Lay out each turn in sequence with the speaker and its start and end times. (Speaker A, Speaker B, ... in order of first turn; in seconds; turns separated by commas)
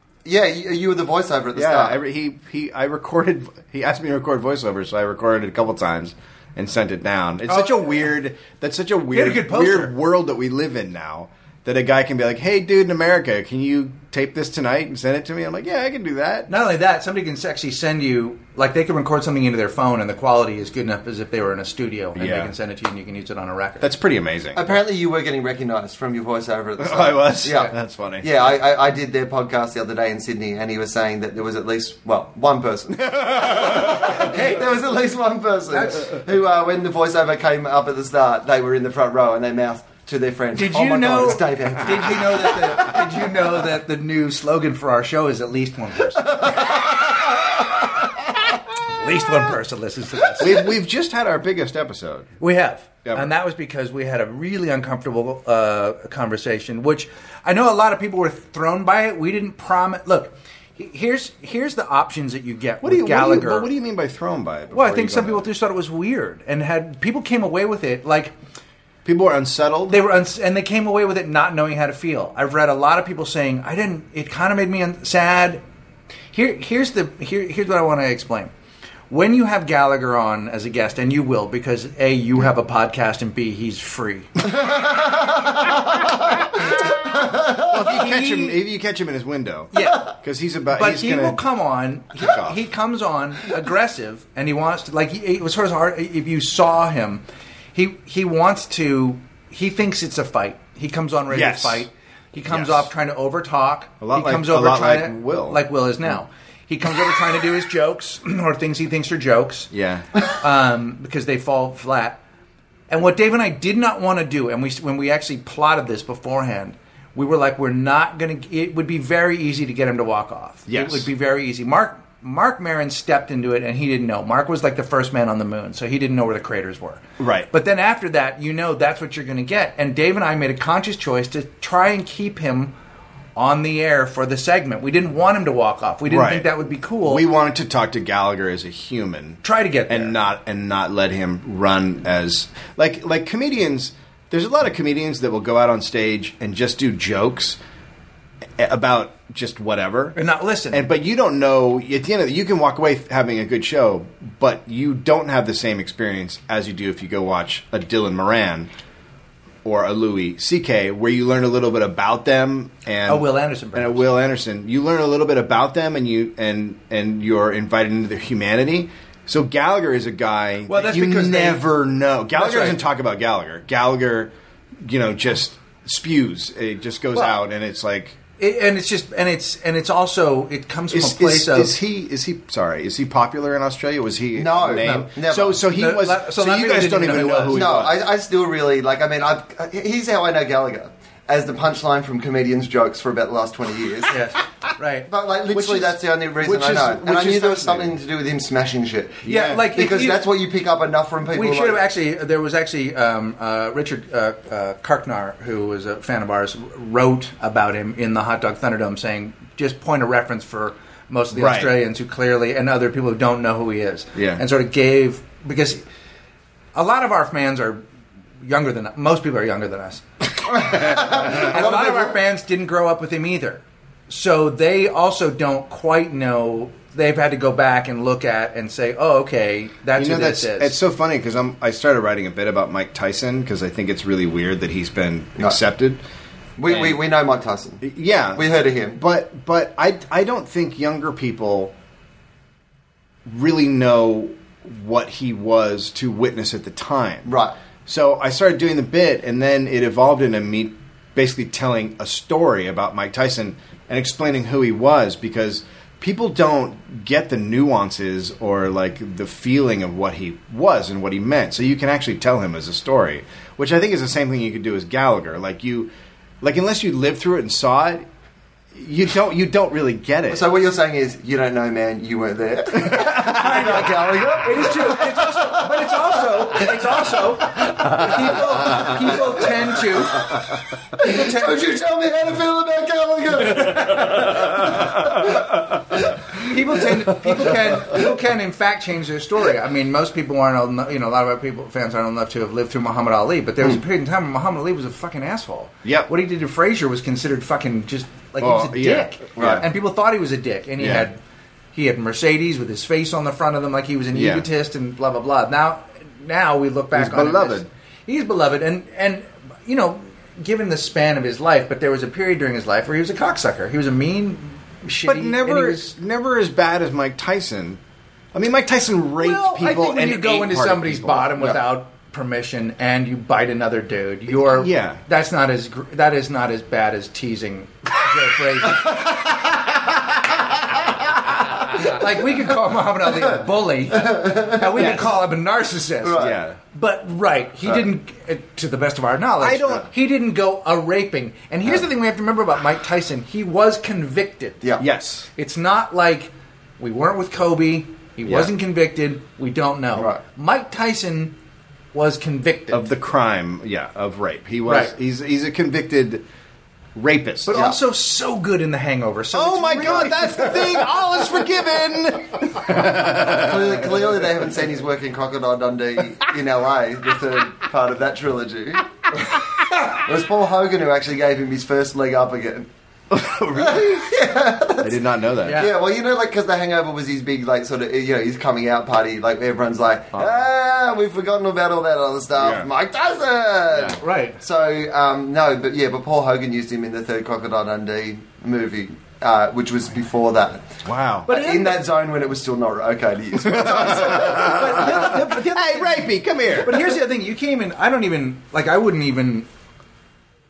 Speaker A: 0.2-2.0, Speaker B: 1.5-16.5, Speaker C: 7.5-8.0, Speaker C: 9.1-9.9, Speaker C: 16.5-23.9, Speaker B: 22.2-22.5, Speaker B: 23.8-24.7, Speaker A: 24.5-42.9, Speaker B: 26.8-28.3, Speaker B: 32.9-34.2, Speaker C: 33.8-34.7, Speaker C: 35.7-36.1, Speaker C: 40.5-46.6, Speaker A: 46.3-47.7, Speaker C: 48.9-50.6, Speaker B: 50.4-52.3, Speaker C: 52.4-63.7, Speaker B: 53.0-53.3, Speaker B: 62.8-65.5, Speaker C: 64.7-68.3, Speaker B: 69.0-70.0, Speaker C: 69.9-75.6, Speaker C: 76.3-78.5, Speaker C: 79.1-84.4, Speaker A: 84.5-87.7, Speaker B: 87.6-91.4, Speaker C: 87.7-88.6, Speaker C: 89.7-90.1, Speaker C: 90.7-109.7, Speaker B: 92.2-92.6, Speaker B: 101.3-101.9, Speaker B: 102.5-102.9, Speaker B: 104.0-105.6, Speaker B: 109.7-110.1, Speaker C: 110.3-112.2, Speaker C: 112.9-132.7, Speaker B: 120.7-121.1, Speaker B: 127.2-127.5, Speaker C: 133.4-137.2, Speaker B: 136.1-136.5, Speaker B: 137.0-147.6, Speaker C: 139.4-140.2, Speaker B: 148.6-150.2, Speaker C: 150.2-150.9, Speaker B: 150.7-158.7, Speaker B: 159.6-174.3, Speaker C: 163.1-164.1, Speaker C: 170.7-171.7, Speaker C: 172.3-172.8, Speaker B: 174.8-178.2, Speaker C: 177.1-177.4, Speaker C: 178.4-181.8, Speaker B: 180.9-187.9, Speaker A: 184.3-185.6, Speaker C: 184.8-187.7, Speaker A: 187.5-194.2, Speaker C: 194.1-195.1, Speaker A: 195.1-201.8, Speaker B: 195.6-198.0, Speaker B: 199.2-199.7, Speaker C: 199.2-200.2, Speaker C: 201.3-215.8, Speaker B: 211.3-211.8, Speaker B: 214.2-214.4, Speaker C: 216.7-217.8, Speaker C: 218.4-220.1, Speaker A: 220.5-222.2, Speaker C: 220.6-230.8, Speaker B: 229.9-236.0, Speaker A: 236.6-239.0, Speaker B: 237.8-241.7, Speaker B: 243.3-247.3, Speaker A: 247.3-247.6, Speaker B: 247.8-265.9, Speaker B: 266.4-268.1, Speaker B: 268.7-270.4, Speaker A: 270.3-275.9, Speaker B: 272.9-273.2, Speaker C: 272.9-280.3, Speaker A: 280.9-286.2, Speaker C: 281.0-281.6, Speaker C: 286.3-301.2, Speaker B: 295.8-296.1, Speaker B: 298.4-299.7, Speaker A: 299.4-299.6, Speaker B: 300.8-301.1, Speaker C: 301.7-315.9, Speaker B: 304.1-304.4, Speaker B: 306.9-307.7, Speaker B: 315.1-317.8, Speaker B: 318.3-321.5, Speaker C: 319.2-329.1, Speaker B: 324.3-325.0, Speaker C: 331.7-344.6, Speaker A: 333.9-335.0, Speaker B: 334.8-335.1, Speaker A: 336.0-336.4, Speaker B: 336.2-336.6, Speaker B: 339.4-339.9, Speaker B: 344.8-345.3, Speaker C: 345.4-351.3, Speaker B: 348.3-348.5, Speaker A: 349.9-350.2, Speaker C: 351.9-352.8, Speaker B: 352.7-356.2, Speaker C: 354.7-354.9, Speaker B: 356.9-357.6, Speaker C: 357.4-361.2, Speaker A: 357.5-357.8, Speaker B: 359.3-364.1, Speaker A: 362.9-369.0, Speaker A: 369.9-372.7, Speaker B: 373.1-374.1, Speaker A: 373.6-390.8, Speaker B: 374.8-375.7, Speaker C: 375.4-375.7, Speaker B: 380.1-380.4, Speaker B: 382.4-382.7, Speaker C: 384.0-384.4, Speaker B: 390.8-391.3, Speaker C: 391.3-391.8, Speaker A: 391.3-395.1, Speaker B: 393.4-396.9, Speaker C: 394.1-399.5